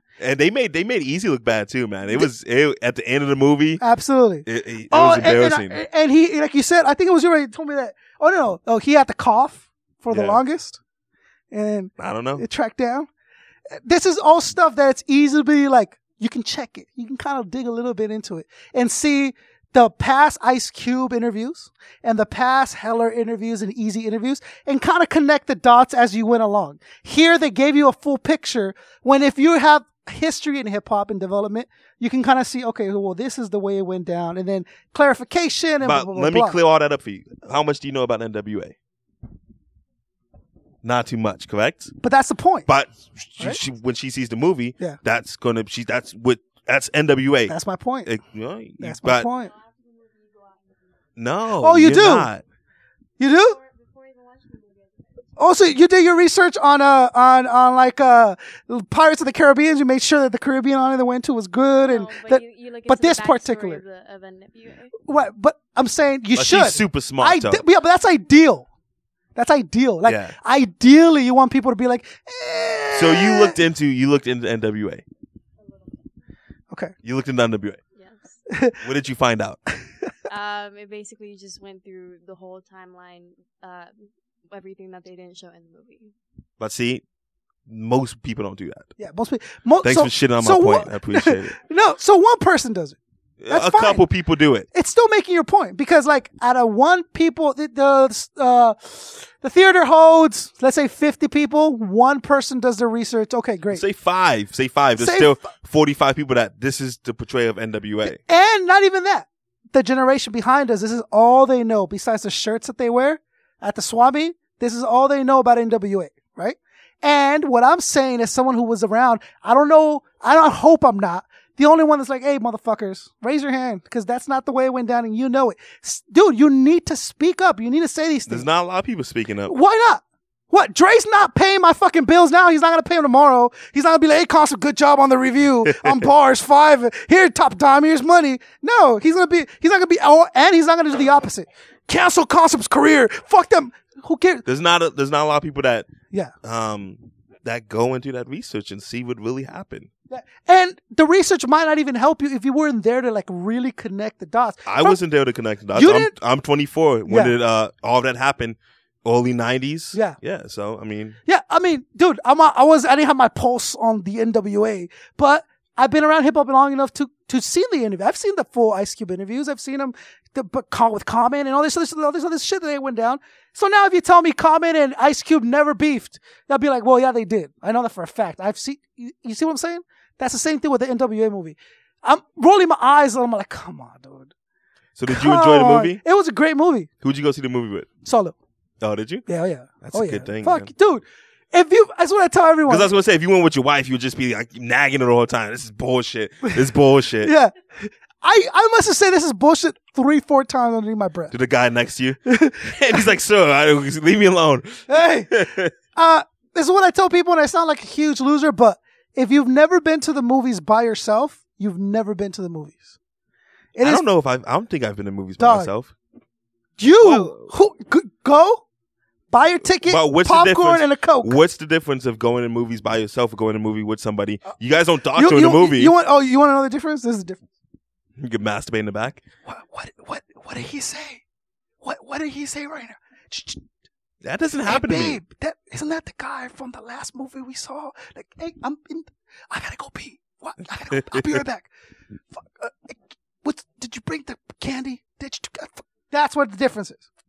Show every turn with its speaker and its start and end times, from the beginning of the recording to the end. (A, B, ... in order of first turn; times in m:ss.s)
0:00.2-0:03.8 A
0:03.8-0:10.8 B
0:04.5-0:05.8 A
0:10.1-0:10.4 A
0:11.5-0:13.1 B
0:12.0-0:12.4 A
0:13.8-0:36.6 B
0:35.8-0:38.8 A
0:40.8-0:41.9 A
0:42.0-0:42.7 B
0:42.7-0:47.5 A
0:47.5-0:48.1 B
0:48.0-0:49.3 A
0:48.8-0:49.5 B
0:49.4-0:51.1 C
0:51.2-0:52.4 A
0:51.6-0:52.3 B
0:53.2-0:53.6 B
0:53.2-0:55.4 C
0:55.4-1:03.8 B
1:01.8-1:05.0 C
1:05.1-1:08.7 B
1:06.4-1:07.6 A
1:09.4-1:13.6 B
1:10.0-1:10.3 A
1:12.9-1:15.0 A
1:15.6-1:16.1 C
1:17.0-1:17.8 A
1:18.0-1:18.4 C
1:18.5-1:18.8 B
1:18.8-1:19.6 A
1:20.3-1:26.1 C
1:26.6-1:27.0 A
1:27.7-1:28.9 A
1:29.0-1:33.0 B
1:29.8-1:31.6 A
1:33.4-1:34.7 A
1:33.5-1:34.0 B
1:34.7-1:43.8 B
1:43.7-1:48.2 A
1:45.0-1:45.4 B
1:48.1-2:08.5 B
2:08.3-2:09.5 A
2:09.5-2:24.4 B
2:24.5-2:25.9 A
2:26.4-2:29.9 A
2:30.1-2:35.0 B
2:34.7-2:41.2 A
2:35.7-2:36.1 B
2:37.1-2:37.3 B
2:41.3-3:04.3 B
3:05.0-3:06.0 A
3:05.1-3:06.9 B
3:07.0-3:07.9 A
3:08.0-3:08.4 B
3:08.8-3:09.3 A
3:09.3-3:12.9 B
3:09.8-3:10.7 A
3:12.7-3:17.3 A
3:17.2-3:21.3 B
3:21.3-3:25.7 A
3:22.3-3:23.0 B
3:24.9-3:25.3 B
3:26.0-3:32.9 B
3:33.8-3:34.0 B
3:33.8-3:35.9 A
3:35.4-3:35.7 B
3:36.8-3:38.6 B
3:37.0-3:37.5 A
3:39.3-3:41.4 B
3:39.8-3:45.9 A
3:45.2-3:47.4 B
3:48.2-3:49.2 A
3:49.5-3:51.2 B
3:51.8-3:53.6 B
3:54.2-3:55.2 A
3:54.7-4:01.7 B
4:01.0-4:01.4 A
4:02.3-4:07.0 B